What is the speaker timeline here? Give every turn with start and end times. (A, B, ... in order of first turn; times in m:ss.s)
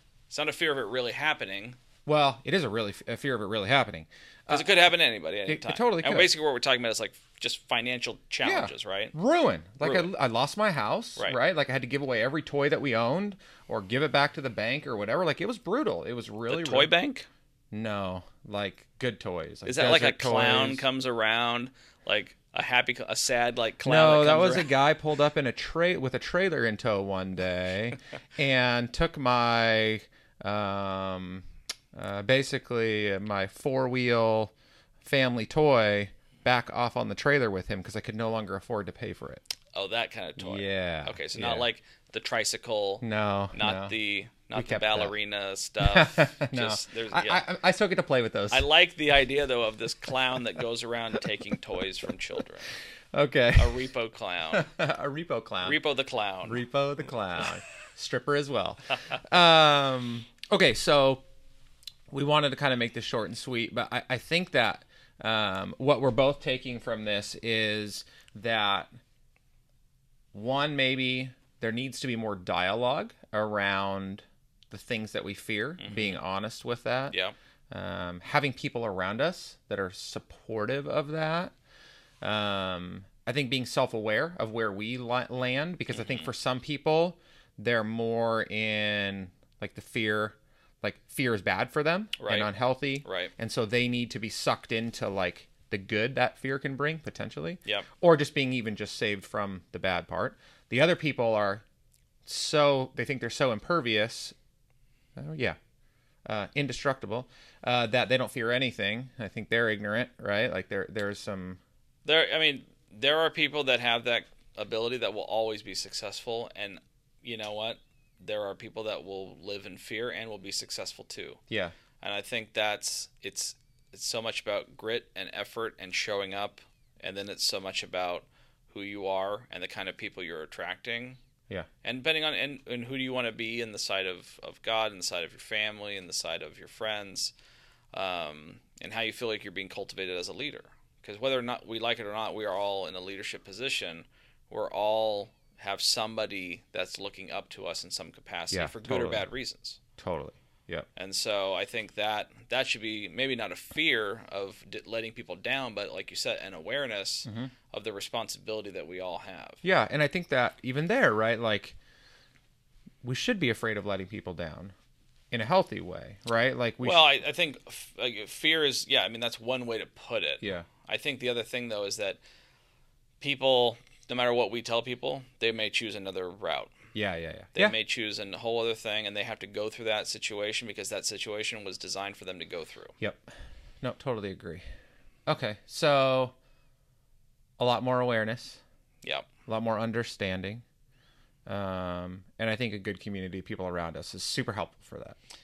0:00.3-0:01.8 A
0:02.1-0:04.8 B
0:04.5-0:09.2 A
0:05.4-0:06.3 B
0:08.4-0:16.9 B
0:09.8-0:10.1 A
0:16.5-0:17.3 A
0:17.7-0:20.9 B
0:19.6-0:24.8 A
0:23.8-0:34.5 B
0:35.0-0:39.4 B
0:39.7-0:47.4 A
0:40.4-0:41.7 B
0:43.0-0:44.0 B
0:44.5-0:45.1 B
0:45.8-0:48.7 B
0:48.5-0:52.7 A
0:53.1-0:53.9 B
0:53.6-0:54.7 A
0:54.5-0:55.8 B
0:55.6-0:56.6 A
0:56.4-1:01.2 B
1:02.1-1:08.9 B
1:10.3-1:17.2 B
1:15.8-1:16.2 A
1:17.1-1:17.4 A
1:17.7-1:21.5 B
1:22.2-1:41.6 B
1:25.9-1:26.3 A
1:32.2-1:32.5 A
1:33.0-1:33.3 A
1:42.2-1:44.4 B
1:45.2-1:45.6 B
1:46.3-1:51.6 B
1:52.0-2:01.4 A
2:02.0-2:11.2 A
2:11.8-2:17.3 A
2:17.9-2:29.8 A
2:28.5-2:29.3 B
2:30.0-2:30.9 B
2:31.0-2:39.6 A
2:37.2-2:37.5 B
2:39.6-2:41.8 B
2:43.0-2:44.7 B
2:45.3-2:47.2 B
2:46.8-2:52.2 A
2:53.2-2:56.7 A
2:57.0-2:57.8 B
2:57.5-3:03.0 A
3:03.0-3:03.3 B
3:03.8-3:04.6 B
3:05.3-3:06.3 B
3:07.6-3:08.6 B
3:09.0-3:09.3 A
3:09.5-3:10.6 B
3:11.5-3:15.2 B